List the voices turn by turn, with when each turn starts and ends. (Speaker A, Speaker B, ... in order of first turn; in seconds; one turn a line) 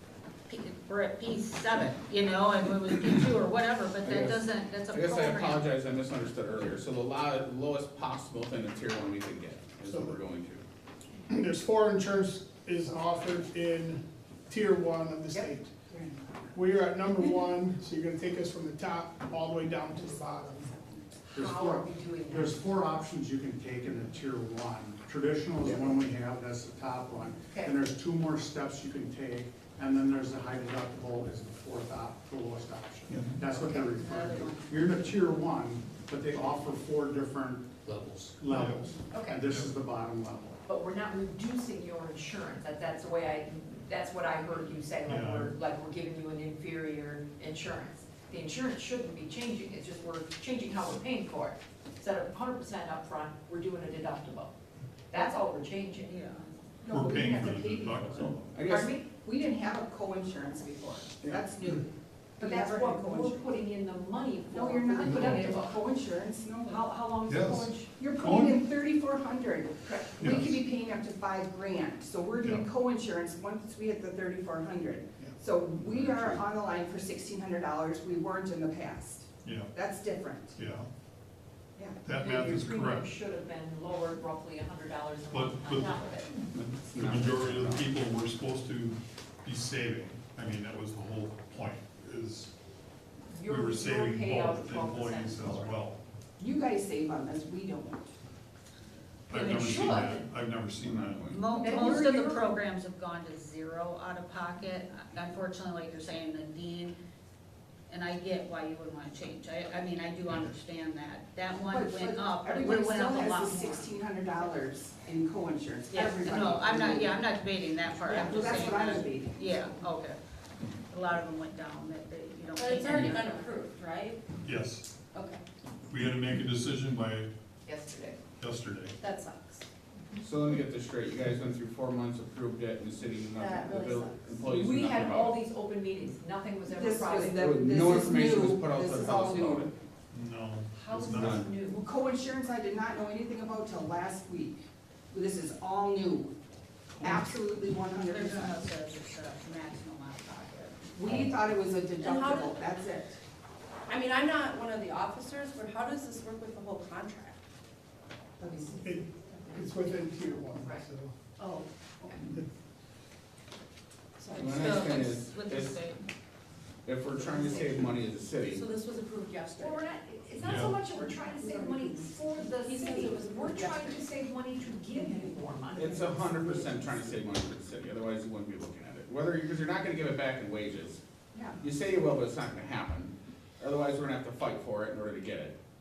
Speaker A: 0.5-5.6
Speaker B: 4.0-4.4
Speaker C: 4.9-10.6
Speaker D: 9.8-10.2
Speaker D: 11.3-15.7
Speaker E: 15.9-16.2
Speaker D: 16.5-20.8
Speaker F: 21.3-22.6
Speaker B: 21.3-40.6
Speaker F: 27.5-27.7
Speaker G: 33.1-33.4
Speaker A: 33.5-34.8
Speaker G: 38.5-39.7
Speaker F: 39.1-39.4
Speaker F: 40.6-54.5
Speaker G: 45.0-45.5
Speaker F: 55.1-56.2
Speaker A: 56.0-56.5
Speaker E: 56.8-63.6
Speaker G: 56.9-58.6
Speaker F: 57.4-57.8
Speaker C: 58.2-58.8
Speaker F: 62.4-65.8
Speaker E: 64.5-66.9
Speaker F: 66.6-68.1
Speaker G: 67.2-68.6
Speaker E: 67.9-80.6
Speaker G: 70.2-70.6
Speaker G: 72.4-72.7
Speaker G: 79.4-79.7
Speaker G: 80.5-80.9
Speaker E: 81.8-82.0
Speaker G: 82.0-83.1
Speaker F: 82.1-86.3
Speaker G: 85.3-86.0
Speaker D: 86.5-87.0
Speaker C: 86.8-87.9
Speaker G: 86.9-92.5
Speaker F: 93.3-95.7
Speaker G: 93.4-96.0
Speaker E: 96.4-98.1
Speaker G: 99.3-101.3
Speaker F: 99.3-100.2
Speaker C: 100.8-101.3
Speaker A: 101.3-107.0
Speaker E: 101.5-102.3
Speaker A: 107.9-113.9
Speaker E: 111.7-117.2
Speaker A: 115.9-120.2
Speaker E: 118.0-119.8
Speaker A: 120.9-123.3
Speaker H: 122.5-124.2
Speaker G: 124.4-124.9
Speaker F: 125.1-125.4
Speaker G: 125.9-127.3
Speaker F: 127.7-128.2
Speaker G: 128.4-128.9
Speaker H: 129.0-129.7
Speaker D: 130.2-130.6
Speaker C: 130.3-135.2
Speaker D: 131.7-133.5
Speaker H: 133.4-134.3
Speaker D: 134.3-135.4
Speaker F: 134.4-137.9
Speaker E: 136.7-139.7
Speaker C: 137.5-139.5
Speaker D: 138.1-139.7
Speaker G: 140.1-141.5
Speaker F: 140.7-141.8
Speaker D: 141.2-141.4
Speaker E: 141.7-146.3
Speaker E: 147.0-148.6
Speaker G: 147.0-147.3
Speaker A: 148.0-150.8
Speaker E: 150.9-153.2
Speaker H: 152.0-152.6
Speaker H: 153.9-157.4
Speaker E: 158.4-158.8
Speaker D: 158.8-161.1
Speaker F: 159.5-159.8
Speaker F: 160.5-160.8
Speaker H: 161.4-162.2
Speaker H: 164.2-164.9
Speaker C: 164.4-165.7
Speaker A: 164.4-166.1
Speaker C: 166.8-168.6
Speaker H: 167.2-167.7
Speaker D: 167.4-168.3
Speaker H: 168.5-169.9
Speaker F: 169.6-177.1
Speaker G: 170.4-170.8
Speaker E: 170.9-172.1
Speaker H: 172.6-173.8
Speaker E: 173.4-174.0
Speaker E: 175.0-176.1
Speaker C: 175.7-181.0
Speaker D: 176.0-176.6
Speaker E: 181.3-181.6
Speaker C: 181.6-185.5